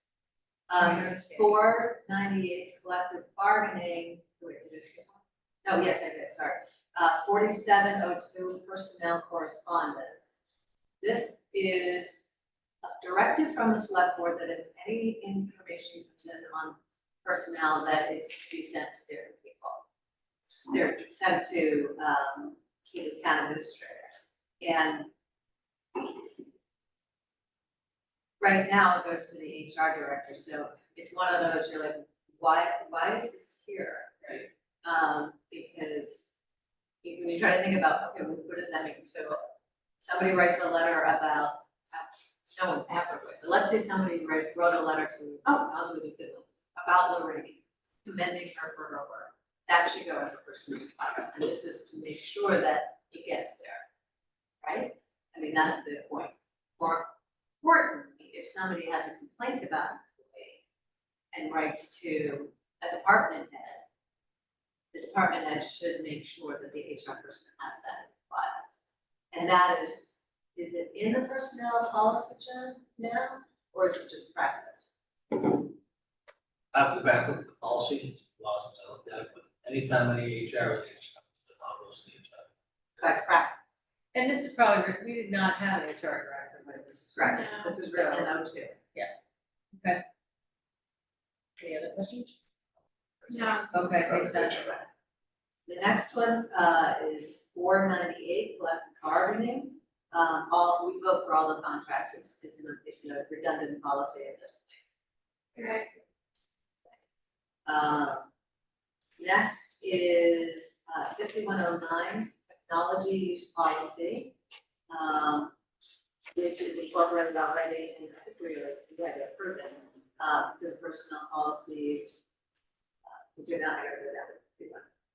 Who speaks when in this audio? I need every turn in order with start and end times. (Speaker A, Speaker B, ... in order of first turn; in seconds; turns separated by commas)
Speaker A: 0.7-10.2, Speaker B: 0.8-1.5, Speaker A: 11.0-12.3, Speaker A: 12.8-19.8, Speaker A: 20.5-25.1, Speaker A: 26.0-26.3, Speaker A: 28.4-36.4, Speaker A: 37.0-39.5, Speaker A: 40.0-53.9, Speaker A: 54.6-60.6, Speaker A: 61.3-63.9, Speaker A: 64.9-68.6, Speaker A: 69.3-74.9, Speaker C: 76.7-82.5, Speaker A: 83.0-83.6, Speaker B: 84.1-88.3, Speaker A: 87.2-88.8, Speaker B: 91.6-92.3, Speaker B: 93.7-94.9, Speaker A: 95.7-104.8, Speaker A: 107.7-108.3, Speaker A: 109.2-114.4, Speaker A: 114.9-115.5, Speaker A: 116.3-122.2, Speaker A: 123.1-124.9